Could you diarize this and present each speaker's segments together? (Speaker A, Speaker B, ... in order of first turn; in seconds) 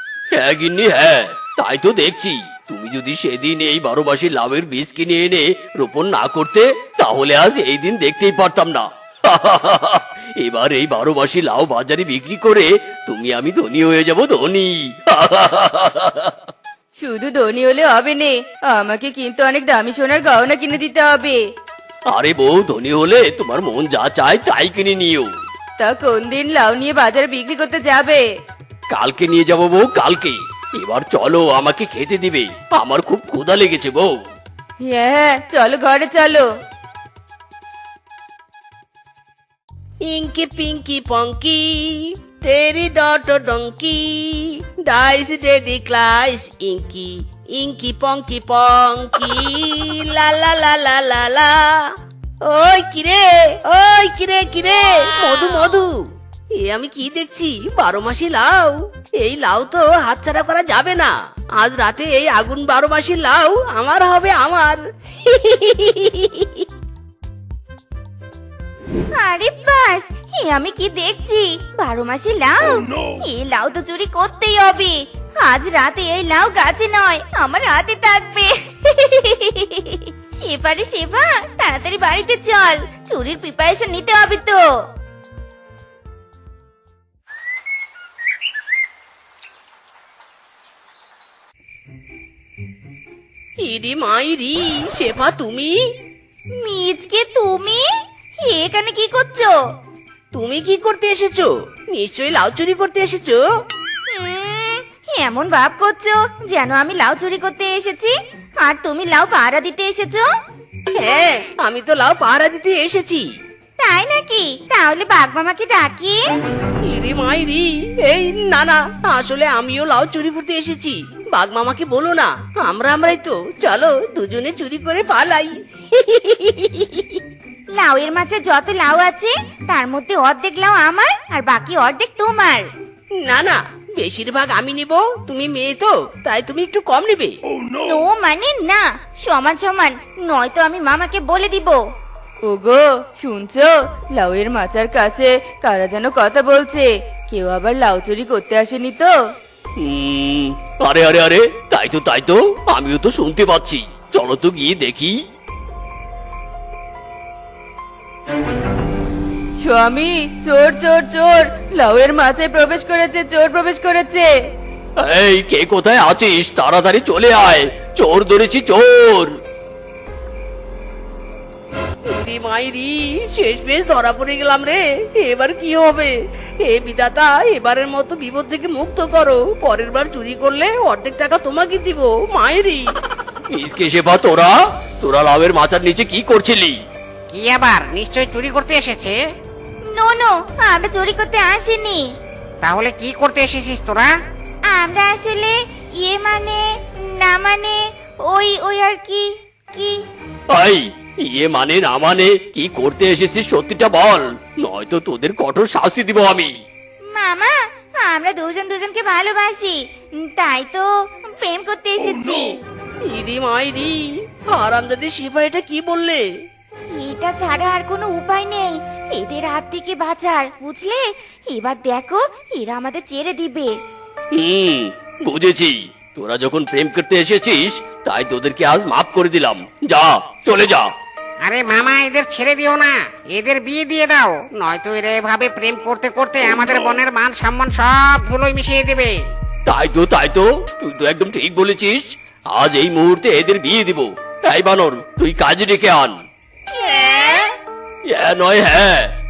Speaker A: 0.3-16.3, 22.1-25.3, 28.9-34.1, 149.8-155.2, 165.0-169.3, 183.5-186.8, 200.5-206.5, 224.3-230.9, 239.7-246.2, 248.1-249.1
Speaker B: 17.0-21.4, 25.8-28.3, 34.9-36.5, 142.5-149.1, 159.6-164.3
Speaker C: 40.0-51.6, 52.4-55.9, 56.6-66.5, 93.6-95.7, 100.3-103.4, 111.0-113.2, 116.8-127.0, 133.2-137.3, 172.1-182.8, 213.1-214.0, 214.5-216.2
Speaker D: 69.1-84.7, 96.6-97.8, 98.4-99.6, 104.1-110.3, 113.8-116.2, 127.8-132.7, 137.8-141.8, 189.9-192.0, 194.7-200.0, 207.1-212.6, 216.9-223.7, 246.7-247.5
Speaker E: 187.3-189.1, 192.6-194.1, 231.4-239.1